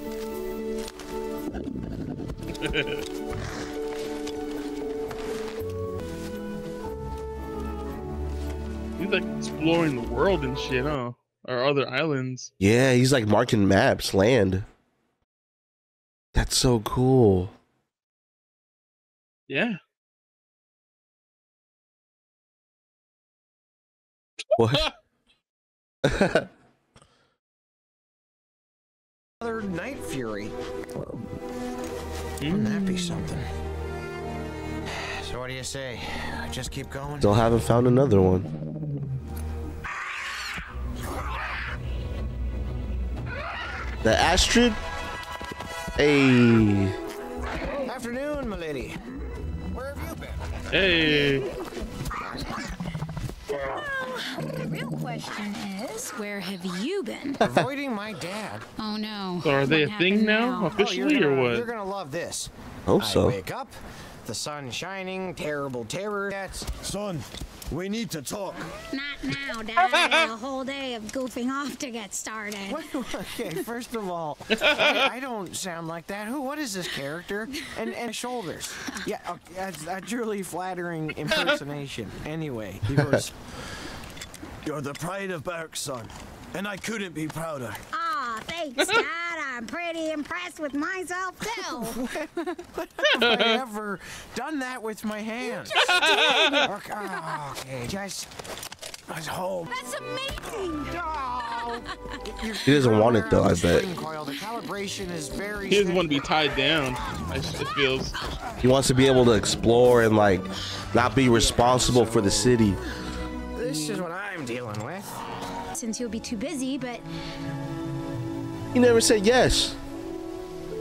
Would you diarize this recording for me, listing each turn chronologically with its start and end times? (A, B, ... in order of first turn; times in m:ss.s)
0:02.6-0:03.0 A
0:09.0-0:12.5 A
0:12.6-0:14.6 B
0:16.3-0:17.5 B
0:19.5-0:19.8 A
0:24.6-0:24.9 B
0:26.0-0:26.5 B
0:29.4-0:30.6 C
0:32.4-0:32.8 A
0:32.5-0:33.4 C
0:35.0-0:37.4 C
0:37.2-0:38.5 B
0:44.0-0:44.8 B
0:46.0-0:47.0 B
0:47.9-0:49.0 C
0:49.8-0:50.4 C
0:50.7-0:51.5 A
0:54.5-0:57.4 D
0:57.4-0:58.7 C
0:58.8-1:00.8 D
0:59.4-1:01.7 A
1:00.8-1:06.7 C
1:02.9-1:03.4 B
1:06.8-1:08.7 E
1:08.9-1:12.9 D
1:09.8-1:10.3 A
1:12.7-1:23.1 C
1:14.6-1:15.0 A
1:22.9-1:23.2 B
1:24.6-1:27.8 E
1:27.9-1:32.1 D
1:31.6-1:35.8 C
1:33.2-1:33.6 A
1:35.5-1:37.4 D
1:35.8-1:36.7 A
1:36.7-1:38.3 C
1:39.1-1:39.7 E
1:39.7-1:40.9 D
1:40.9-1:46.3 C
1:42.6-1:43.9 B
1:45.7-1:48.2 A
1:48.6-1:52.8 B
1:51.3-1:52.6 C
1:53.6-1:55.2 C
1:55.8-1:57.1 D
1:58.7-1:59.8 B